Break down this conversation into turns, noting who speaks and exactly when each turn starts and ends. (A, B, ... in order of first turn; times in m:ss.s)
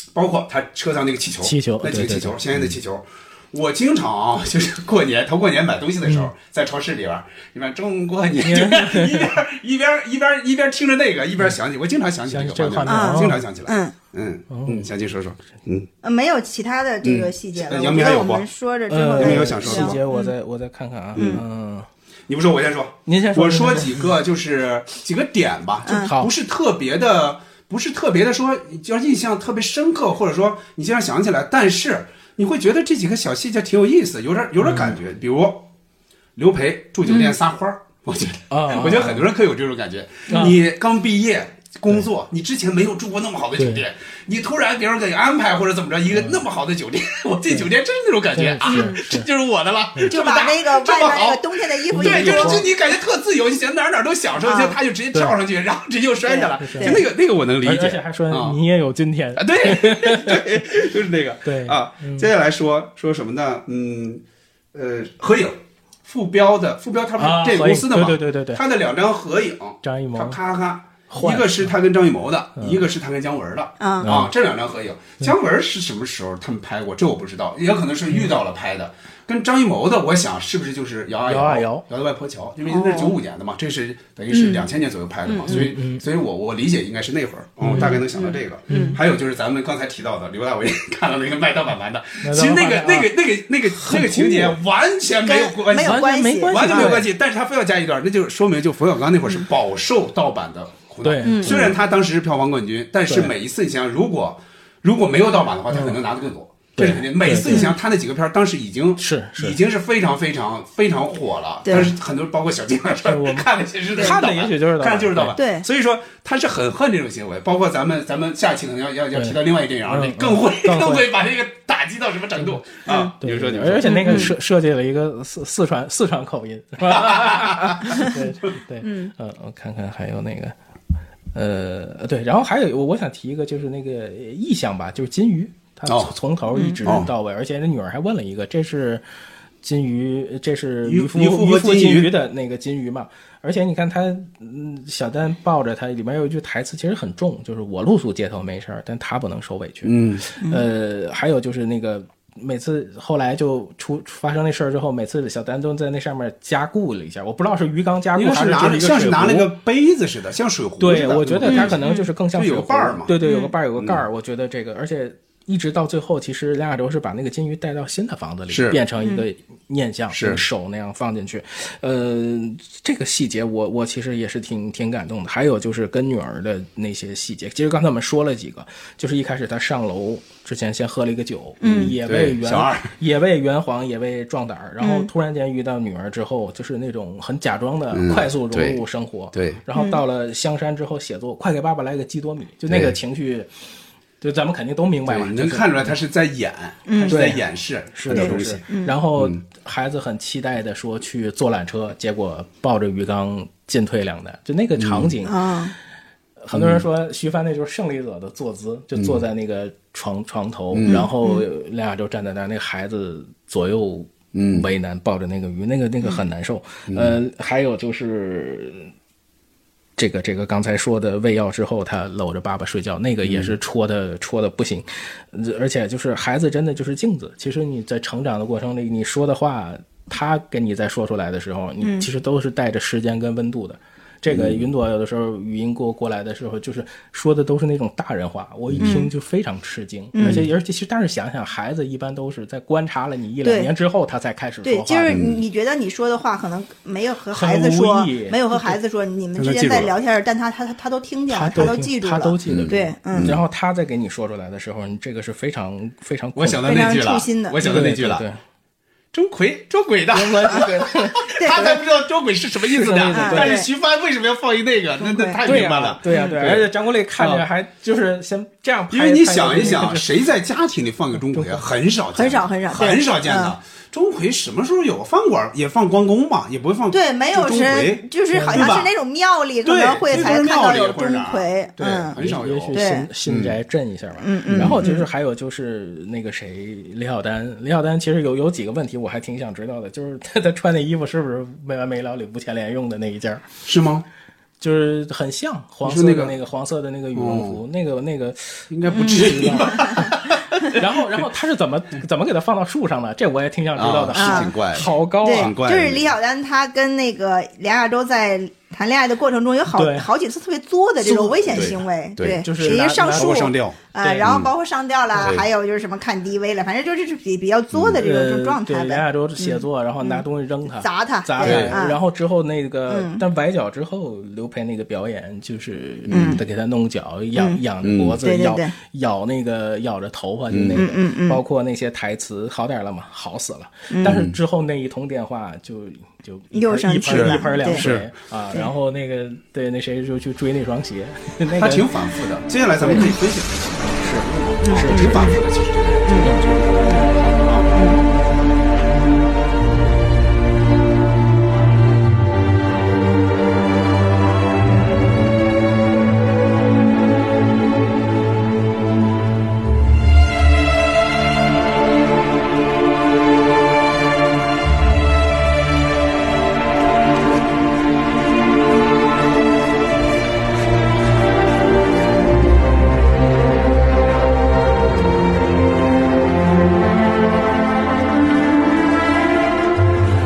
0:00.2-0:15.9 A
0:01.4-0:02.7 B
0:06.0-0:06.3 B
0:08.4-0:09.3 B
0:12.3-0:13.5 B
0:12.9-0:14.0 C
0:14.5-0:14.9 B
0:16.0-0:20.3 C
0:17.0-0:18.5 A
0:18.9-0:21.9 B
0:19.1-0:20.0 A
0:21.2-0:21.4 A
0:21.2-0:21.4 C
0:22.3-0:35.7 A
0:23.1-0:24.1 B
0:25.9-0:26.1 C
0:26.0-0:26.3 B
0:34.6-0:34.9 B
0:36.4-0:58.6 A
0:37.1-0:37.4 C
0:38.5-0:39.3 B
0:40.3-0:40.6 B
0:43.6-0:43.8 B
0:46.1-0:46.4 B
0:48.3-0:49.3 B
0:48.6-0:49.0 C
0:50.1-0:52.6 C
0:51.9-0:52.7 B
0:54.4-0:54.8 C
0:56.3-0:57.0 C
0:56.6-0:57.0 B
0:57.6-1:00.4 B
0:59.4-1:04.2 A
1:01.4-1:02.3 B
1:04.7-2:04.3 A
1:07.2-1:08.6 B
1:09.8-1:10.4 B
1:11.1-1:11.7 B
1:13.8-1:14.1 C
1:14.0-1:14.3 B
1:21.3-1:21.8 B
1:22.7-1:23.1 C
1:24.3-1:24.6 C
1:25.3-1:25.7 C
1:25.5-1:26.0 B
1:27.6-1:28.0 B
1:27.7-1:29.0 C
1:28.7-1:29.0 B
1:32.2-1:34.6 B
1:35.2-1:37.0 C
1:35.8-1:37.1 B
1:41.0-1:41.8 B
1:41.2-1:41.7 C
1:43.1-1:43.3 B
1:45.7-1:46.0 B
1:46.8-1:47.7 B
1:47.5-1:47.8 C
1:49.0-1:49.6 B
1:51.7-1:51.9 C
1:53.0-1:55.4 B
1:55.4-1:55.7 C
1:59.1-2:01.1 B
2:02.9-2:03.1 C
2:03.2-2:10.6 B
2:03.9-2:04.3 C
2:06.8-2:08.1 A
2:08.8-2:09.1 C
2:11.3-2:19.0 B
2:15.9-2:16.1 A
2:16.5-2:16.8 C
2:16.8-2:17.1 A
2:19.6-2:39.5 B
2:20.8-2:22.1 A
2:29.8-2:30.3 A
2:38.2-2:43.2 A
2:40.8-3:13.5 B
2:41.4-2:42.1 C
2:43.2-2:43.5 C
2:43.8-2:44.0 A
2:48.5-2:48.8 A
2:49.0-2:49.2 C
2:50.1-2:50.4 A
3:01.6-3:02.0 C
3:01.8-3:02.9 A
3:04.8-3:05.1 C
3:07.9-3:08.8 A
3:09.3-3:09.6 A
3:09.8-3:10.0 C
3:12.7-3:13.0 A
3:14.2-3:16.0 B
3:15.1-3:19.4 A
3:16.9-3:17.2 C
3:17.1-3:25.4 B
3:18.1-3:19.0 C
3:24.8-3:25.1 A
3:25.2-3:25.8 C
3:26.4-3:38.9 B
3:26.5-3:26.8 A
3:29.0-3:29.2 A
3:30.7-3:31.0 A
3:30.8-3:31.5 C
3:34.3-3:34.7 A
3:36.9-3:37.2 A
3:40.0-4:05.2 B
3:43.2-3:43.5 A
3:51.8-3:52.1 C
3:54.3-3:54.6 A
3:58.7-3:59.0 A
3:58.8-3:59.1 C
4:00.1-4:00.5 C
4:00.2-4:00.4 A
4:03.4-4:03.7 C
4:04.6-4:13.4 C
4:05.1-4:05.4 A
4:07.3-4:08.8 B
4:09.4-4:09.9 A
4:11.3-4:16.8 B
4:12.5-4:13.4 A
4:16.4-4:18.2 A
4:16.6-4:17.6 C
4:17.6-4:18.4 B
4:19.1-4:27.4 A
4:20.1-4:21.3 B
4:21.4-4:21.8 C
4:22.6-4:23.6 B
4:23.1-4:23.7 C
4:25.0-4:25.4 C
4:25.4-4:30.1 B
4:26.1-4:26.4 C
4:28.9-4:38.9 A
4:31.2-4:31.7 B
4:32.1-4:33.5 C
4:36.9-4:42.2 C
4:38.3-4:38.7 B
4:39.6-4:43.6 A
4:42.2-4:53.4 B
4:42.7-4:43.1 C
4:44.2-4:45.1 C
4:44.5-4:44.8 A
4:53.6-4:54.1 A
4:54.6-5:05.5 B
4:55.8-4:56.4 A
4:57.2-4:57.6 A
4:58.7-5:01.2 A
4:58.9-5:00.0 C
5:03.8-5:06.1 A
5:04.1-5:04.5 C
5:05.2-5:22.0 C
5:09.7-5:10.1 B
5:11.0-5:11.7 B
5:11.0-5:14.5 A
5:12.4-5:14.3 B
5:15.2-5:15.5 A
5:17.7-5:18.0 A
5:18.0-5:41.9 B
5:21.4-5:21.8 A
5:22.9-5:23.2 C
5:26.1-5:26.4 A
5:26.1-5:26.4 C
5:27.8-5:28.2 A
5:28.2-5:28.8 C
5:30.5-5:30.8 A
5:30.7-5:31.4 C
5:33.9-5:34.2 C
5:34.0-5:34.4 A
5:36.5-5:37.8 C
5:37.1-5:38.1 A
5:41.5-5:48.0 A
5:42.8-5:43.1 B
5:44.0-5:45.4 B
5:44.6-5:45.4 C
5:46.0-5:47.1 C
5:46.1-5:47.2 B
5:47.7-5:48.0 C